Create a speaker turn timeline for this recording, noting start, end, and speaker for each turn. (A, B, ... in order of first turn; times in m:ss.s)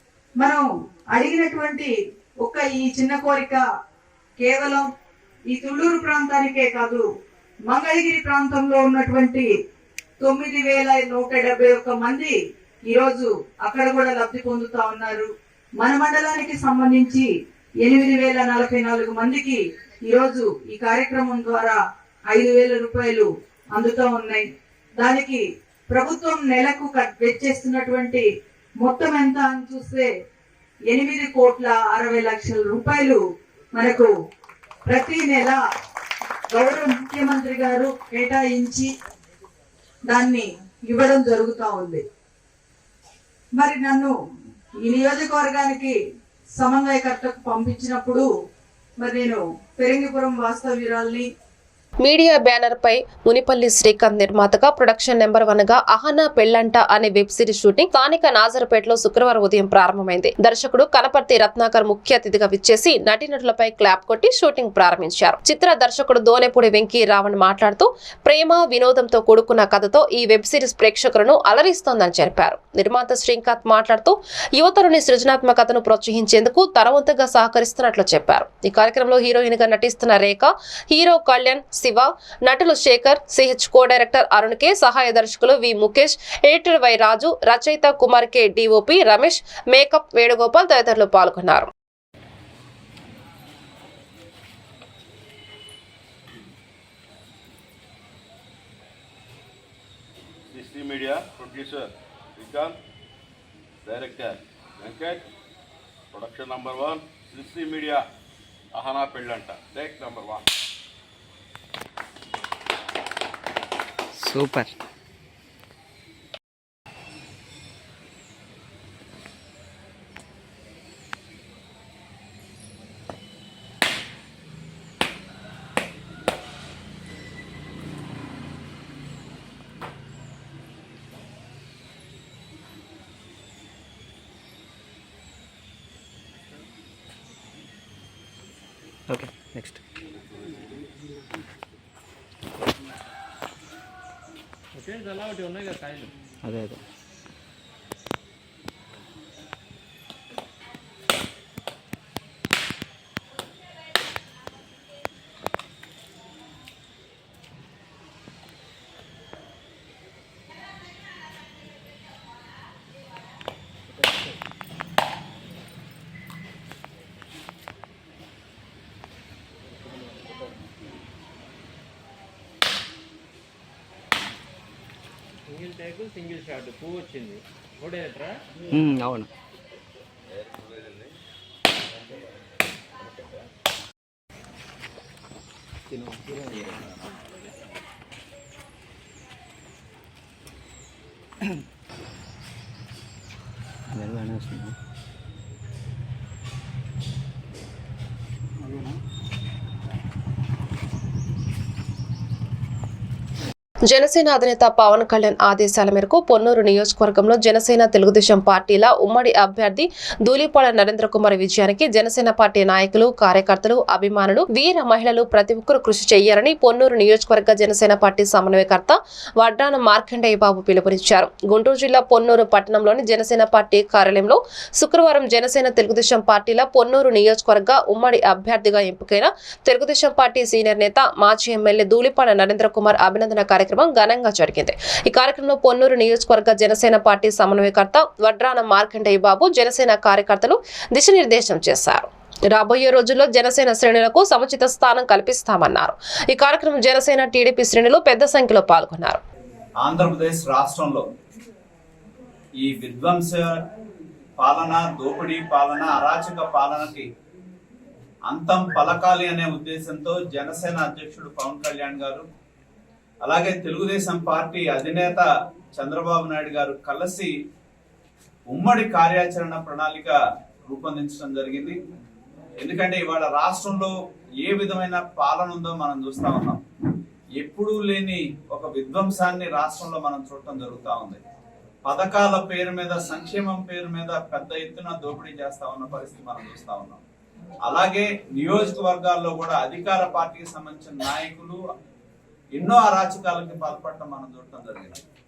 0:00.4-0:03.6 A
0:04.4-0:04.9 A
0:05.5-0:07.0 A
0:07.7-0:09.5 A
0:10.2-0:12.4 A
0:12.9-0:15.3 A
0:15.8-0:17.3 A
0:17.8-0:21.8 A
0:22.3-0:24.4 A
0:25.0-0:28.3 A
0:28.8-0:30.1 A
0:30.9-0:33.2 A
0:33.7-0:34.1 A
0:34.9-0:35.6 A
0:36.5-0:38.9 A
0:40.1-0:42.0 A
0:43.6-0:44.1 A
0:44.8-0:46.0 A
0:46.6-0:48.3 A
0:49.0-0:51.3 A
0:52.0-1:31.7 B
1:40.5-1:42.8 C
1:43.8-1:45.2 C
1:46.1-1:48.0 C
1:48.7-1:50.4 C
1:54.2-1:54.7 D
2:19.1-2:19.8 D
2:24.7-2:26.1 E
2:26.4-2:26.8 D
2:55.5-2:58.4 E
2:58.7-2:59.3 D
3:00.5-3:01.1 C
3:05.9-3:07.0 E
3:13.9-3:14.7 D
3:23.9-4:09.2 B
4:09.8-4:11.0 F
4:12.6-4:13.6 F
4:14.4-4:17.1 F
4:18.3-4:22.2 F
4:23.2-4:27.3 F
4:28.5-4:30.2 F
4:30.7-4:31.8 F
4:32.6-4:36.6 F
4:37.4-4:41.2 F
4:41.8-4:47.0 F
4:47.6-4:51.6 F
4:52.5-4:55.0 F